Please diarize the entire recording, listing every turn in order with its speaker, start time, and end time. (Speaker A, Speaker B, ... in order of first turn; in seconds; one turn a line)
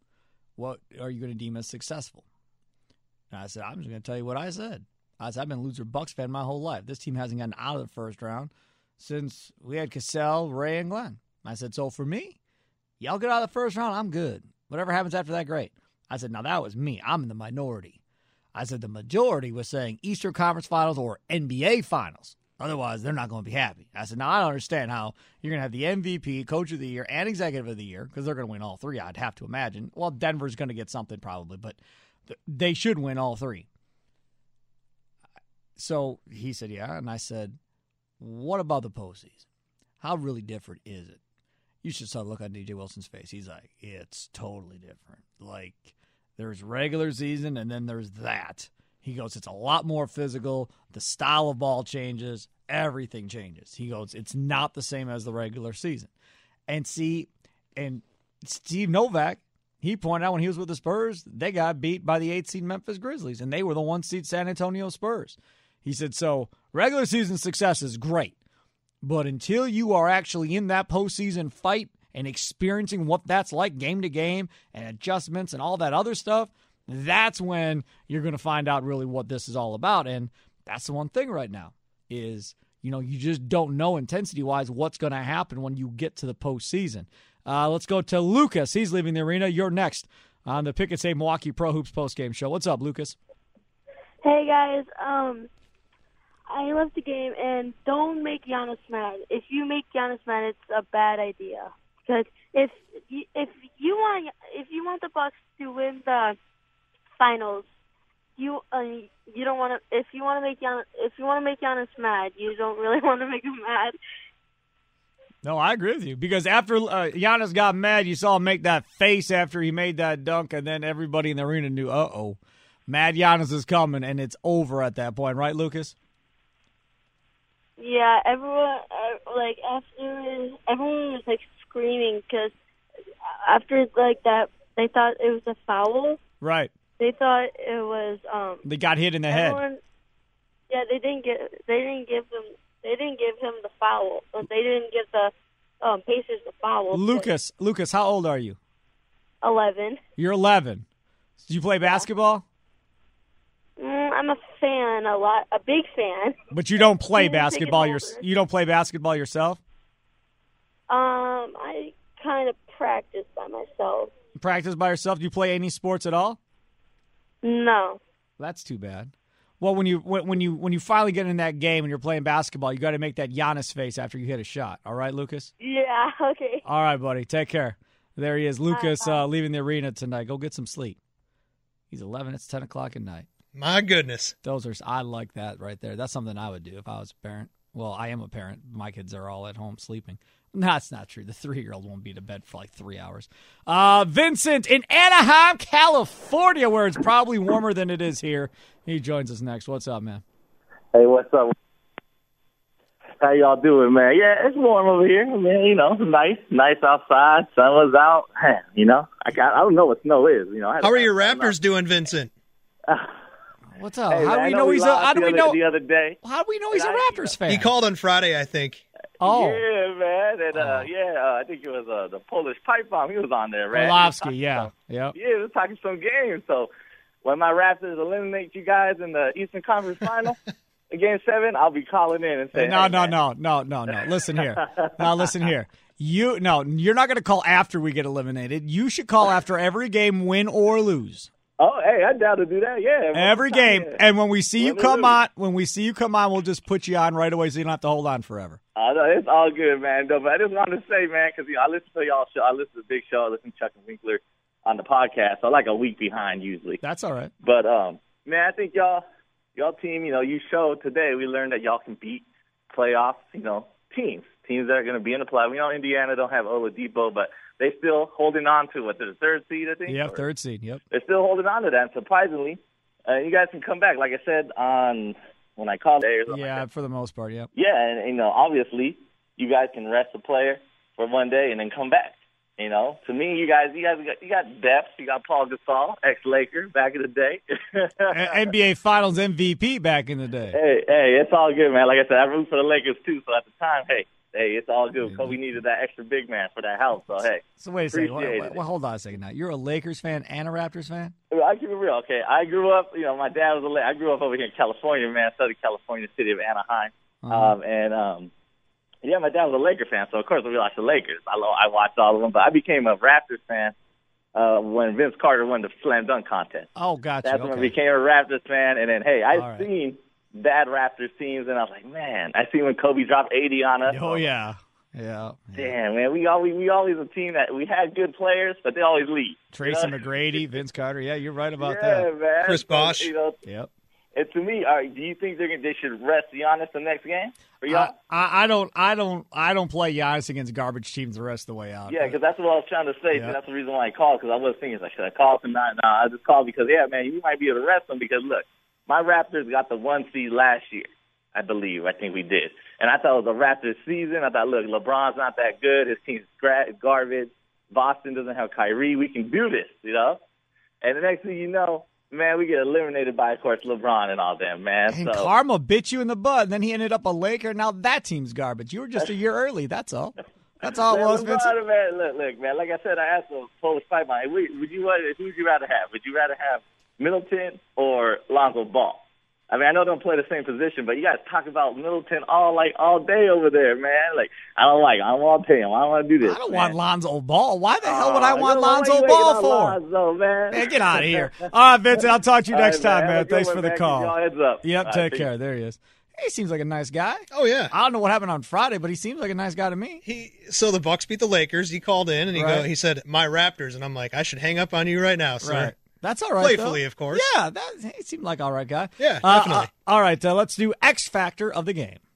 Speaker A: 0.6-2.2
Speaker A: 3.3-12.4
Speaker A: 13.0-18.0
Speaker A: 18.5-33.7
Speaker A: 35.8-37.6
Speaker A: 38.2-39.5
Speaker A: 40.0-41.2
Speaker A: 41.8-56.1
Speaker A: 56.7-68.3
Speaker A: 69.0-93.2
Speaker B: 94.2-95.5
Speaker B: 96.5-106.4
Speaker B: 107.2-107.7
Speaker B: 108.4-114.0
Speaker A: 115.4-125.9
Speaker B: 127.8-132.5
Speaker B: 133.4-136.2
Speaker A: 136.4-136.7
Speaker B: 137.0-138.6
Speaker A: 138.6-139.6
Speaker B: 139.3-139.8
Speaker B: 140.7-147.3
Speaker A: 146.9-148.6
Speaker B: 149.4-150.0
Speaker A: 150.2-150.8
Speaker A: 151.4-152.4
Speaker B: 153.8-156.4
Speaker A: 156.5-159.6
Speaker B: 157.1-158.2
Speaker B: 160.9-164.1
Speaker A: 164.4-166.4
Speaker B: 167.4-168.0
Speaker A: 168.4-175.5
Speaker B: 175.6-176.6
Speaker A: 176.6-181.0
Speaker B: 178.7-179.3
Speaker A: 181.9-183.3
Speaker C: 183.5-184.3
Speaker A: 184.4-200.2
Speaker D: 200.9-201.5
Speaker D: 203.2-211.6
Speaker C: 210.8-212.3
Speaker D: 212.9-213.2
Speaker A: 213.7-215.6
Speaker D: 214.1-216.2
Speaker A: 216.2-217.7
Speaker D: 216.7-217.4
Speaker C: 217.5-218.8
Speaker A: 219.2-219.6
Speaker D: 219.2-226.7
Speaker A: 220.5-220.9
Speaker A: 223.7-225.1
Speaker D: 227.2-230.4
Speaker D: 230.9-233.2
Speaker A: 232.5-241.3
Speaker D: 234.3-235.3
Speaker D: 241.6-244.0
Speaker A: 243.1-248.6
Speaker D: 244.6-245.2
Speaker D: 248.8-256.8
Speaker A: 256.8-257.3
Speaker D: 257.4-259.0
Speaker D: 259.6-270.2
Speaker A: 269.9-270.8
Speaker D: 270.9-276.6
Speaker A: 276.3-277.5
Speaker D: 277.5-288.3
Speaker A: 288.1-290.6
Speaker D: 290.5-298.6
Speaker A: 295.0-295.4
Speaker A: 297.6-301.1
Speaker D: 301.3-308.3
Speaker A: 307.2-307.6
Speaker D: 309.0-313.7
Speaker D: 314.3-316.7
Speaker A: 316.8-317.7
Speaker D: 317.2-324.3
Speaker A: 319.3-319.7
Speaker A: 323.9-325.7
Speaker D: 325.5-330.4
Speaker A: 329.5-332.1
Speaker D: 331.6-333.4
Speaker C: 332.4-333.1
Speaker A: 333.4-333.7
Speaker D: 334.1-337.9
Speaker A: 337.7-342.2
Speaker D: 341.9-360.2
Speaker D: 360.8-365.3
Speaker A: 364.9-371.5
Speaker D: 370.6-386.8
Speaker A: 386.2-389.8
Speaker D: 387.8-391.3
Speaker A: 390.5-400.0
Speaker D: 391.9-395.3
Speaker C: 397.3-397.7
Speaker C: 400.0-405.7
Speaker A: 402.3-402.7
Speaker A: 405.4-412.0
Speaker C: 406.4-407.2
Speaker C: 409.0-409.7